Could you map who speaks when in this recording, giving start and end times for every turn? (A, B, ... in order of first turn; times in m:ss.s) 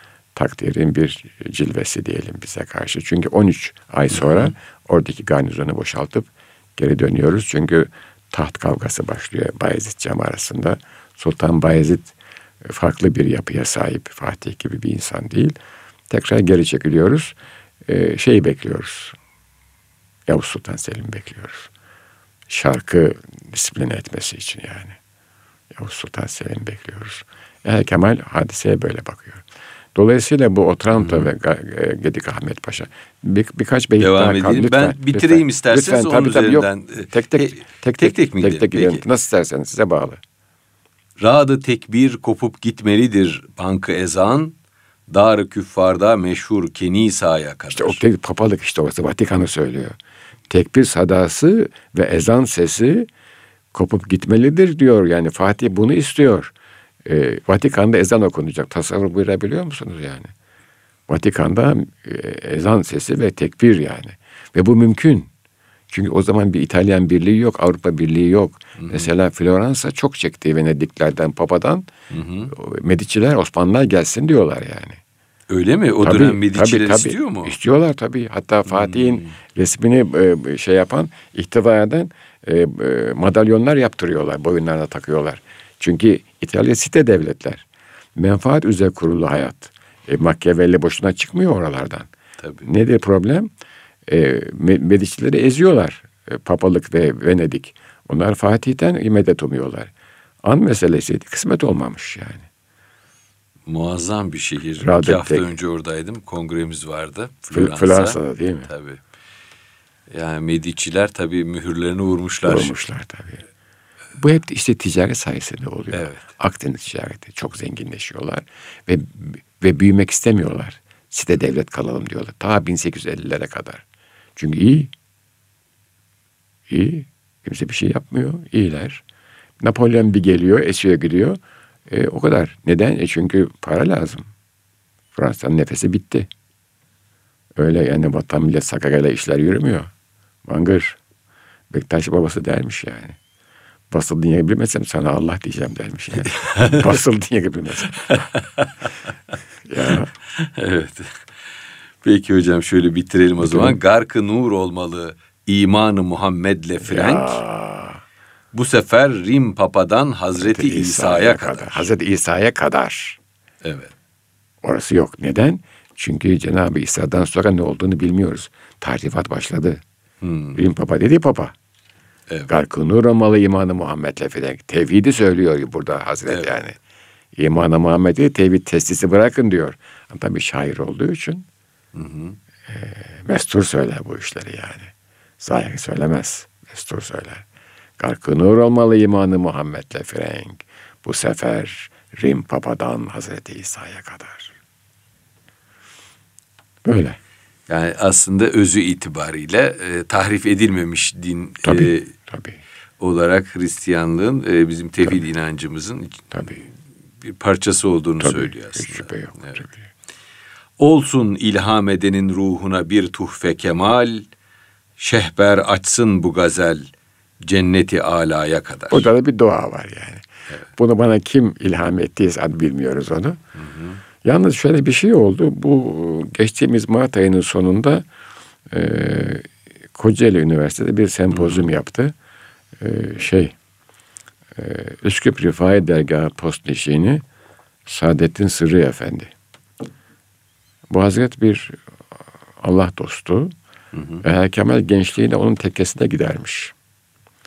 0:00.3-0:15.5 A
0:04.1-0:04.5 B
0:16.1-0:17.3 A
0:17.8-0:19.2 A
0:20.3-0:21.7 A
0:22.5-0:25.0 A
0:25.7-0:29.4 A
0:29.9-0:40.2 A
0:30.9-0:31.3 B
0:34.0-0:39.0 B
0:41.2-0:44.5 B
0:45.1-0:48.0 B
0:47.7-0:50.0 A
0:50.5-0:53.1 A
0:53.7-0:56.5 A
0:57.0-1:00.3 A
1:01.1-1:05.3 A
1:05.9-1:11.9 A
1:08.8-1:09.1 B
1:12.1-1:12.5 B
1:12.5-1:15.0 A
1:15.5-1:17.6 B
1:16.0-1:27.6 A
1:18.7-1:19.3 B
1:28.2-1:32.1 A
1:32.6-1:33.5 A
1:34.1-1:39.9 A
1:40.4-1:42.4 A
1:43.7-1:49.0 B
1:44.8-1:45.4 A
1:47.5-1:48.7 A
1:50.1-1:52.7 B
1:52.4-1:53.4 A
1:54.2-2:03.8 A
1:55.9-1:56.3 B
2:04.4-2:04.9 A
2:06.7-2:09.0 A
2:09.6-2:14.3 A
2:15.1-2:16.3 A
2:17.6-2:19.9 A
2:20.4-2:21.0 A
2:21.7-2:23.2 A
2:23.9-2:28.2 A
2:26.2-2:27.0 B
2:28.0-2:28.9 B
2:29.6-2:30.1 A
2:29.8-2:31.2 B
2:32.0-2:37.4 B
2:33.4-2:33.8 A
2:36.8-2:38.0 A
2:38.5-2:41.9 B
2:40.4-2:43.2 A
2:43.6-2:43.9 B
2:44.6-2:49.8 A
2:50.2-2:50.6 B
2:50.5-2:51.5 A
2:52.5-2:56.8 A
2:57.3-3:01.4 A
3:01.9-3:02.4 B
3:02.7-3:07.4 A
3:08.0-3:14.5 A
3:16.8-3:17.2 A
3:17.7-3:22.1 B
3:21.6-3:22.6 A
3:23.0-3:26.7 B
3:26.3-3:26.6 A
3:27.2-3:29.6 B
3:28.2-3:29.9 A
3:30.8-3:34.3 B
3:35.0-3:36.9 B
3:37.4-3:39.1 B
3:38.9-3:40.2 A
3:40.8-3:43.4 A
3:43.6-3:44.0 B
3:44.2-3:48.0 A
3:48.7-3:52.1 A
3:51.3-3:51.7 B
3:52.8-3:53.5 A
3:54.6-3:57.2 A
3:57.8-3:59.3 A
4:00.9-4:01.8 A
4:02.6-4:03.5 A
4:03.9-4:04.2 B
4:04.2-4:06.7 A